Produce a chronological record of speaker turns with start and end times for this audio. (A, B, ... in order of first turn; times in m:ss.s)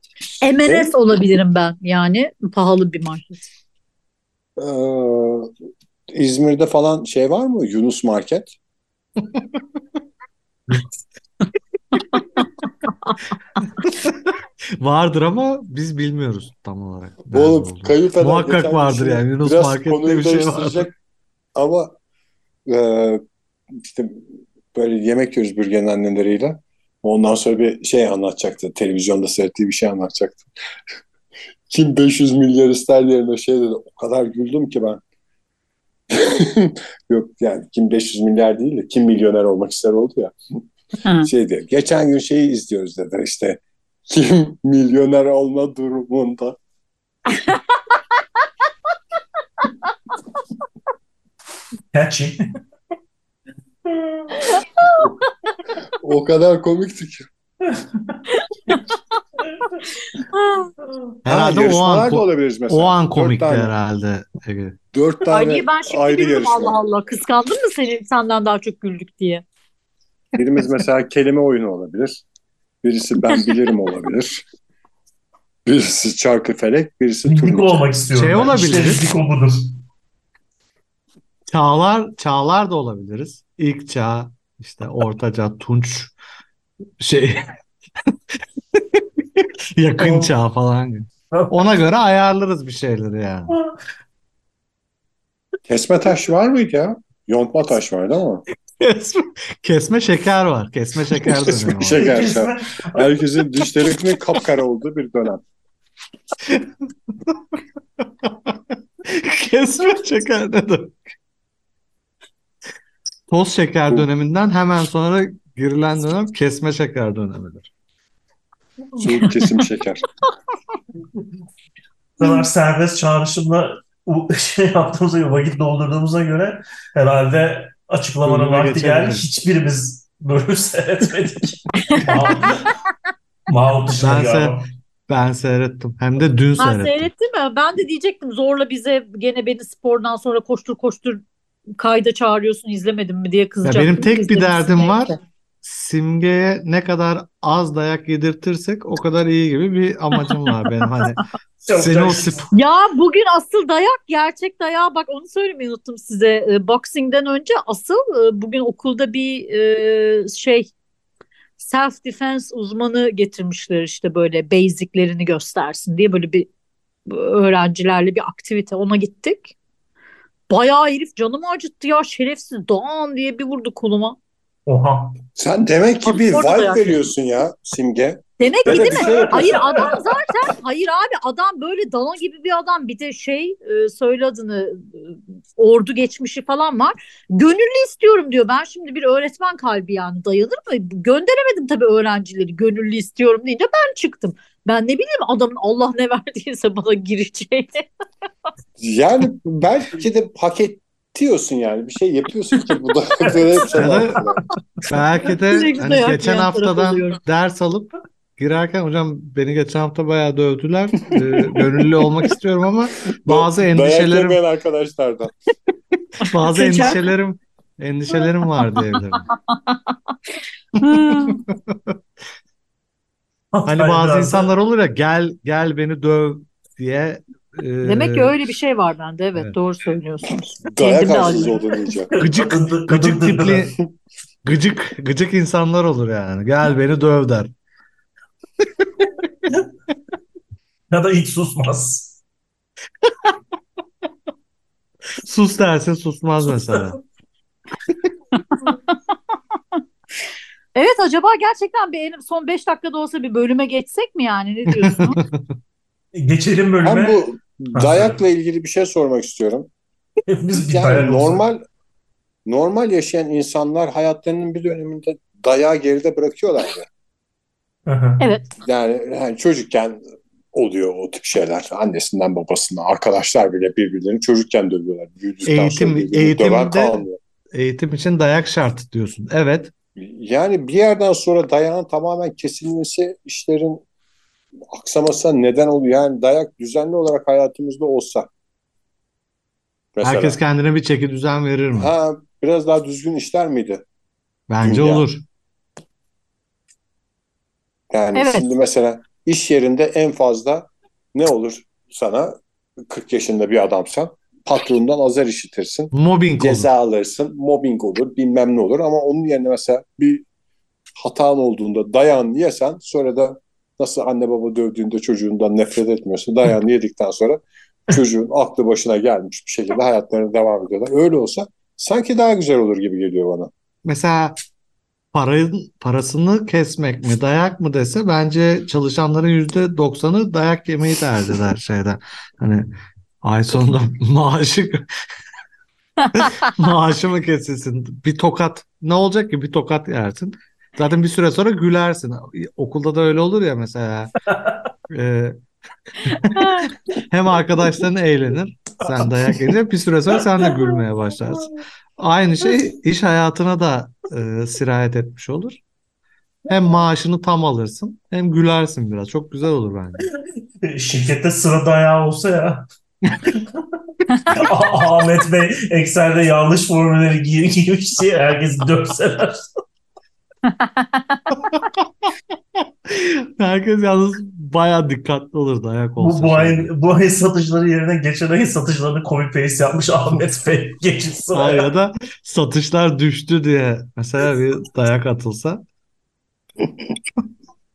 0:00.4-0:03.5 A
0:04.6-0:05.5 B
0:06.1-0:08.5 B
0:11.9-0:12.5 A
0:13.9-0:14.3 C
0:14.8-0:20.9 C
0:17.3-0:20.9 B
0:21.6-0:22.0 B
0:22.7-0:23.2 B
0:23.8-0:30.5 B
0:31.7-0:35.0 B
0:36.1-0:40.3 B
0:41.0-0:41.3 A
0:41.2-0:46.6 B
0:47.3-0:48.0 A
0:51.9-0:52.4 D
0:53.9-0:54.6 D
0:54.5-0:55.1 A
0:56.0-0:57.3 B
0:57.7-0:58.2 D
0:58.3-0:59.0 A
1:00.2-1:00.7 A
1:01.3-1:04.8 C
1:01.3-1:03.7 B
1:04.9-1:06.8 B
1:05.3-1:09.4 A
1:10.4-1:12.2 B
1:12.8-1:14.4 B
1:15.7-1:17.9 B
1:17.3-1:19.7 D
1:18.1-1:19.1 C
1:21.5-1:26.1 C
1:27.0-1:27.5 C
1:28.7-1:33.6 C
1:30.0-1:30.3 D
1:31.3-1:31.7 D
1:33.5-1:33.8 D
1:35.7-1:38.4 B
1:38.8-1:42.3 C
1:41.1-1:45.4 B
1:42.0-1:43.9 D
1:46.5-1:47.4 C
1:48.0-1:51.0 C
1:53.3-1:57.7 C
1:59.0-2:00.0 B
2:02.2-2:12.8 D
2:08.2-2:09.3 C
2:13.5-2:14.6 D
2:14.0-2:17.1 C
2:16.6-2:21.2 A
2:21.8-2:25.2 A
2:23.6-2:32.5 C
2:31.6-2:32.5 D
2:32.5-2:40.7 A
2:41.6-2:46.5 A
2:47.1-2:49.6 A
2:50.5-2:54.2 A
2:54.7-2:55.2 D
2:55.4-3:00.0 B
2:56.0-2:57.0 A
2:58.4-3:17.8 A
2:58.7-2:59.9 D
3:18.8-3:24.4 B
3:23.2-3:24.2 D
3:23.7-3:24.2 C
3:24.9-3:34.4 C
3:25.5-3:27.2 A
3:31.1-3:31.9 B
3:33.2-3:35.3 B
3:36.2-3:39.3 C
3:36.3-3:37.0 A
3:39.5-3:40.0 A
3:40.8-3:42.0 C
3:40.8-3:41.4 A
3:43.5-3:44.5 D
3:43.7-3:48.4 C
3:47.8-3:51.8 A
3:50.6-3:52.1 B
3:52.1-3:53.7 D
3:52.2-3:53.8 C
3:54.4-3:57.5 C
4:00.9-4:02.2 D
4:03.0-4:03.3 C
4:05.2-4:07.0 C
4:08.3-4:08.8 A
4:10.8-4:15.2 A
4:14.7-4:15.5 C
4:16.1-4:18.2 D
4:16.8-4:19.7 B
4:20.3-4:21.4 D
4:20.5-4:21.6 B
4:22.5-4:26.9 B
4:27.9-4:28.2 D
4:28.2-4:28.5 A
4:28.6-4:30.0 B
4:30.5-4:37.2 B
4:35.5-4:39.7 C
4:40.0-4:43.8 B
4:44.7-4:48.3 B
4:50.0-4:50.4 B
4:50.0-4:51.9 C
4:51.8-4:53.8 B
4:54.5-4:55.2 C
4:54.6-4:55.0 B
4:57.9-5:02.4 B
4:58.2-4:58.5 A
5:02.9-5:10.2 B
5:05.9-5:06.7 C
5:11.0-5:23.5 B
5:23.8-5:24.4 C
5:25.1-5:32.7 C
5:33.2-5:34.9 C
5:36.1-5:44.1 C
5:44.9-5:45.4 C
5:46.0-5:55.6 C
5:46.1-5:46.7 A
5:48.8-5:49.4 D
5:56.5-6:00.1 C
6:00.6-6:02.7 D
6:04.3-6:09.4 D
6:10.5-6:11.4 A
6:11.5-6:16.7 C
6:16.0-6:21.7 D
6:21.3-6:25.6 C